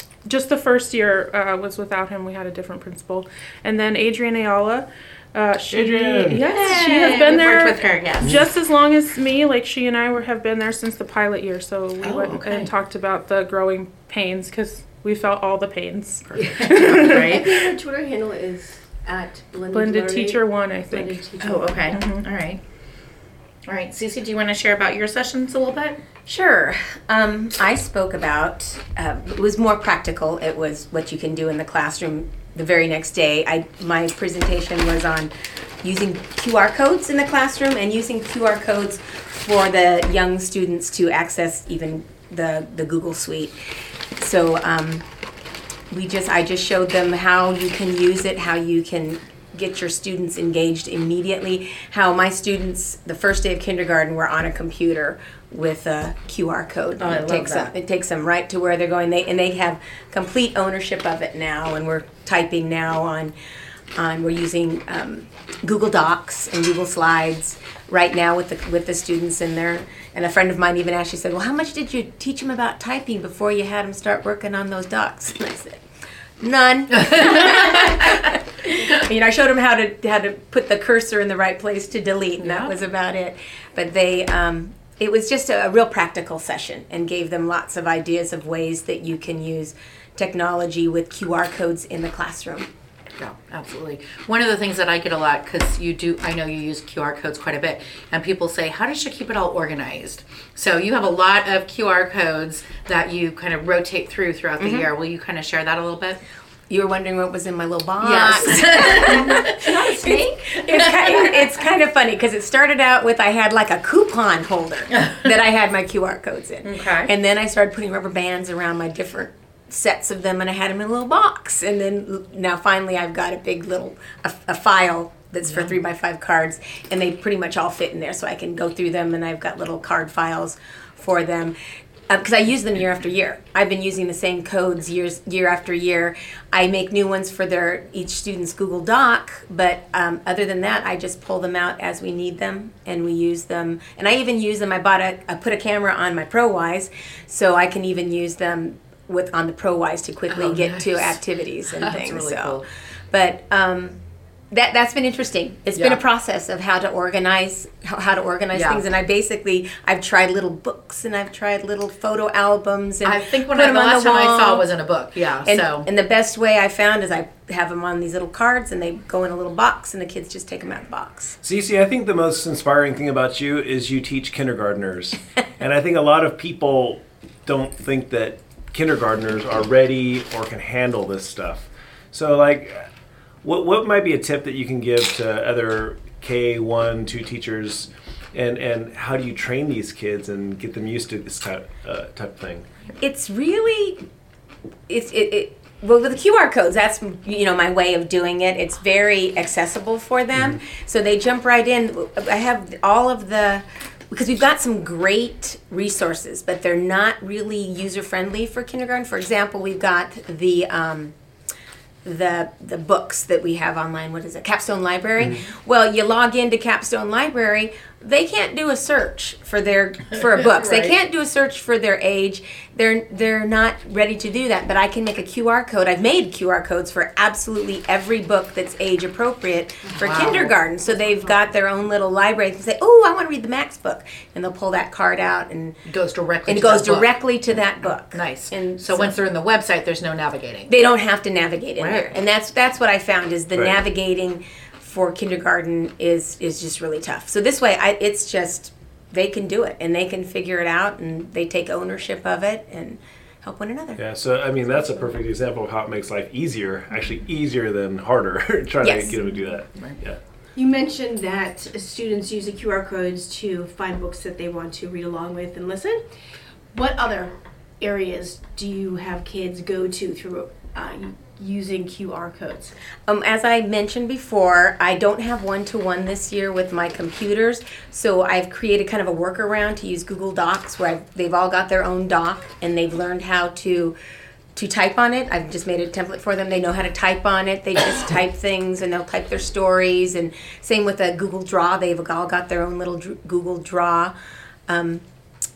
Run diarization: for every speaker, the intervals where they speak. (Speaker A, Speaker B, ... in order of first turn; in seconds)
Speaker A: 0.2-17.2, 19.7-21.2, 21.9-22.2
Speaker B: 5.7-6.7, 171.4-182.9, 183.4-192.7, 254.0-260.2
Speaker C: 6.4-8.4, 12.0-12.7, 16.4-17.7, 21.4-22.6, 23.7-26.0, 57.0-57.7, 77.2-77.9, 82.4-82.7, 93.2-106.2, 108.0-109.5, 110.7-111.4, 116.6-117.1, 125.5-125.7, 150.3-152.7, 155.8-156.0, 158.5-158.8, 163.0-165.9, 220.2-220.9, 230.0-230.5, 235.9-237.2, 237.9-240.7, 241.8-242.1
Speaker D: 16.4-21.9, 108.7-110.6, 231.1-231.3, 260.6-266.0, 266.7-272.7
Speaker E: 26.3-43.6, 44.2-45.1, 45.9-63.4, 64.0-75.8, 76.4-92.7, 104.6-104.9, 106.7-131.6, 132.1-154.0, 154.5-164.7, 165.4-171.4, 193.0-194.0, 194.9-211.2, 212.0-235.8, 236.5-239.2, 240.7-254.0, 258.8-259.2, 273.1-284.0, 284.6-294.1, 294.7-295.0